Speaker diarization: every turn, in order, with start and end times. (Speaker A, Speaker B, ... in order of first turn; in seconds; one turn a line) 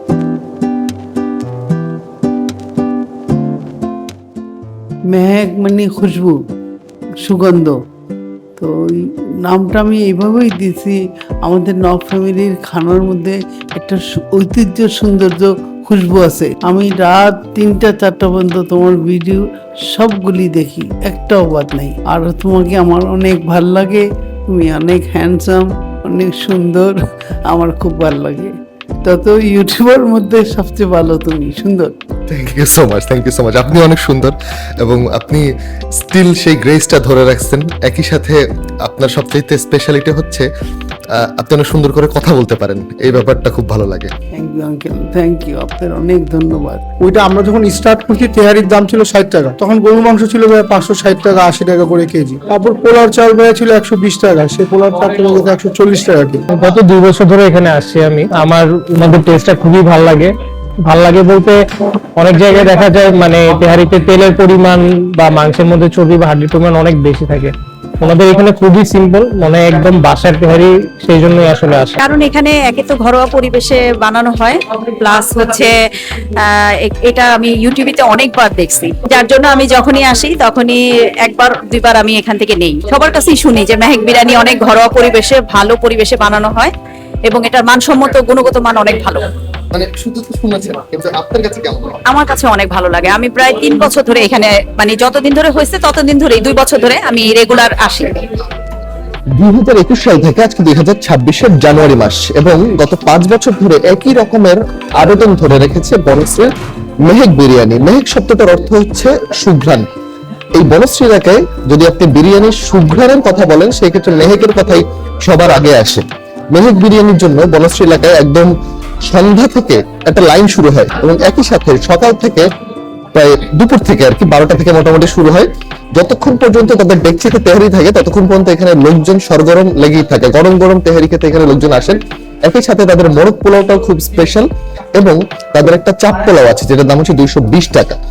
Speaker A: 5.1-6.4
Speaker A: 7.2-7.8
Speaker A: 8.6-31.9
Speaker B: 32.3-40.5
Speaker B: 41.1-44.1
Speaker A: 44.4-46.8
Speaker C: 47.0-56.4
Speaker D: 56.5-60.3
Speaker D: 60.9-72.0
Speaker E: 72.0-86.7
Speaker E: 87.3-89.3
Speaker B: 89.7-92.0
Speaker E: 92.1-98.3
Speaker B: 99.3-106.5
Speaker B: 107.0-109.9
Speaker B: 110.5-118.5
Speaker B: 119.0-122.5
Speaker B: 123.1-138.0